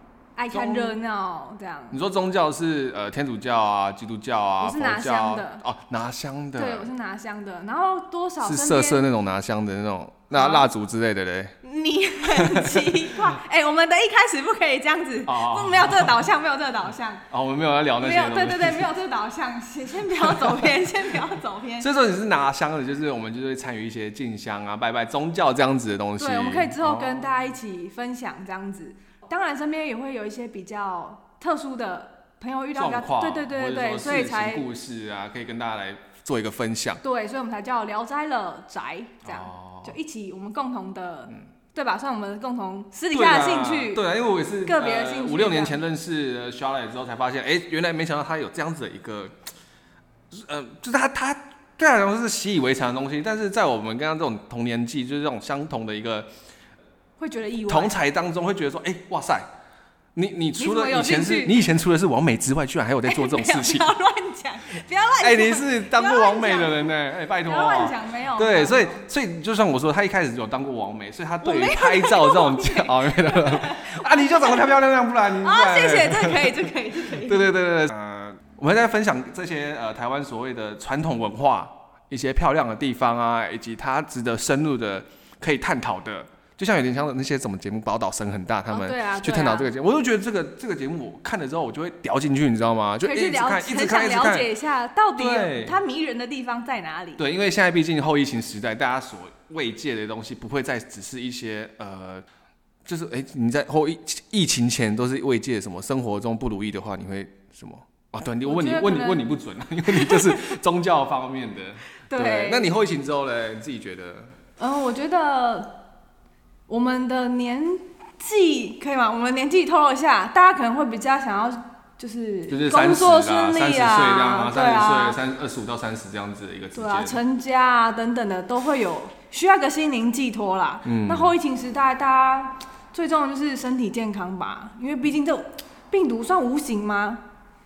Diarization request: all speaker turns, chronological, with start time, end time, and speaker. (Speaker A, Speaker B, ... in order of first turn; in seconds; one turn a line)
Speaker A: 0.4-2.0
Speaker B: 0.5-1.0
Speaker B: 1.9-6.9
Speaker A: 4.6-5.6
Speaker A: 6.6-9.1
Speaker B: 8.4-11.5
Speaker A: 10.3-10.7
Speaker A: 11.6-17.2
Speaker B: 12.2-13.4
Speaker B: 15.3-16.2
Speaker B: 17.3-18.9
Speaker A: 18.0-21.9
Speaker B: 20.2-20.8
Speaker B: 21.8-27.4
Speaker A: 26.2-34.7
Speaker B: 32.8-37.0
Speaker A: 37.0-44.0
Speaker B: 39.2-40.0
Speaker B: 43.1-49.3
Speaker A: 44.7-45.8
Speaker B: 50.3-56.3
Speaker A: 57.2-58.0
Speaker B: 57.7-59.5
Speaker B: 60.1-63.9
Speaker A: 60.6-61.6
Speaker A: 63.0-66.9
Speaker B: 65.2-94.5
Speaker A: 67.4-69.0
Speaker A: 71.4-74.7
Speaker A: 75.4-77.5
Speaker A: 88.7-89.7
Speaker A: 93.0-97.2
Speaker B: 95.2-95.8
Speaker B: 97.2-102.2
Speaker B: 102.9-114.3
Speaker A: 108.5-109.3
Speaker A: 109.9-110.6
Speaker A: 112.1-112.7
Speaker A: 114.6-115.8
Speaker A: 116.7-125.2
Speaker B: 122.5-127.2
Speaker A: 126.7-137.2
Speaker B: 130.8-131.4